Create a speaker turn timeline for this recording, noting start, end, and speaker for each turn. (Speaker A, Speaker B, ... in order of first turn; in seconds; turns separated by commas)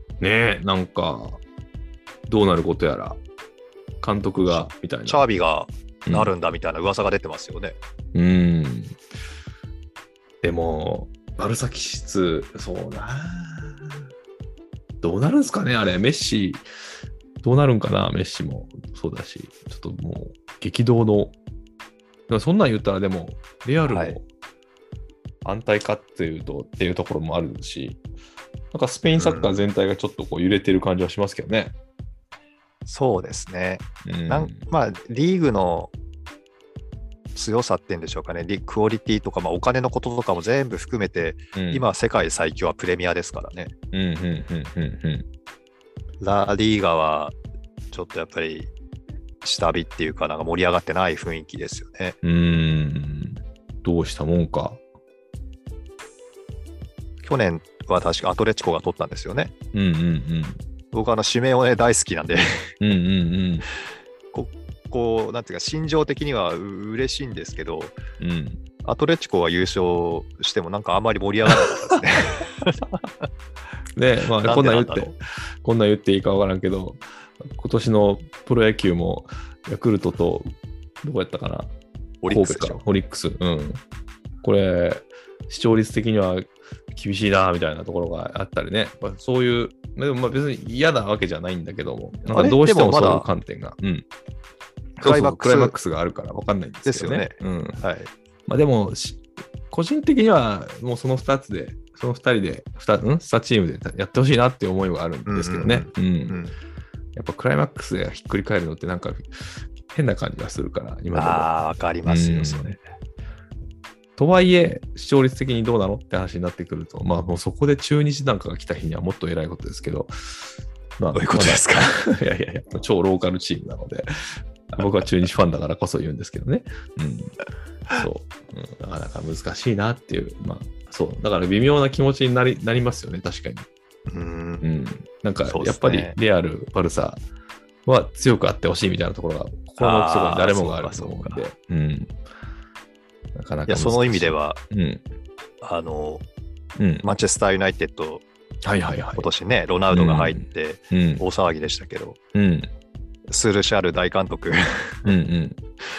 Speaker A: 0.2-1.4, Speaker A: 2.3-3.2, Speaker A: 4.0-5.2, Speaker B: 4.4-7.8, Speaker A: 6.1-6.3, Speaker A: 8.1-8.9, Speaker A: 10.4-14.0, Speaker A: 15.0-16.7, Speaker A: 17.4-21.4, Speaker A: 22.3-24.2, Speaker B: 23.9-24.2, Speaker A: 25.4-28.0, Speaker A: 28.7-31.8, Speaker B: 29.2-29.6, Speaker B: 32.9-35.9, Speaker A: 34.0-34.6, Speaker B: 37.4-43.7, Speaker A: 41.5-41.9, Speaker A: 43.9-45.3, Speaker B: 46.2-47.4, Speaker B: 47.9-48.7, Speaker B: 49.4-52.2, Speaker A: 52.2-54.8, Speaker B: 57.2-59.5, Speaker A: 59.7-60.6, Speaker B: 60.9-62.7, Speaker A: 62.8-63.7, Speaker B: 64.3-68.0, Speaker A: 68.2-68.6, Speaker B: 68.8-72.9, Speaker A: 74.0-80.5, Speaker B: 74.4-75.1, Speaker A: 81.0-81.7, Speaker B: 82.2-82.8, Speaker A: 82.3-83.8, Speaker A: 84.4-94.1, Speaker B: 92.3-93.3, Speaker B: 95.0-95.8, Speaker A: 95.0-97.8, Speaker B: 96.8-98.1, Speaker A: 98.5-106.4, Speaker B: 105.3-106.6, Speaker A: 107.2-111.5, Speaker B: 111.1-112.8, Speaker A: 112.0-112.8, Speaker A: 114.2-120.1, Speaker A: 121.0-124.1, Speaker B: 121.1-121.8, Speaker A: 124.7-127.3, Speaker A: 128.0-133.7, Speaker B: 134.1-134.6, Speaker A: 134.6-137.2, Speaker B: 135.5-136.2, Speaker A: 137.9-142.1, Speaker B: 139.8-141.5, Speaker A: 143.3-145.0, Speaker B: 143.7-144.6, Speaker B: 145.6-146.2, Speaker A: 146.8-147.1, Speaker B: 147.0-148.2, Speaker A: 148.7-149.3, Speaker B: 149.2-152.2, Speaker A: 149.9-151.2, Speaker A: 152.3-152.7, Speaker B: 153.3-155.2, Speaker A: 155.1-155.6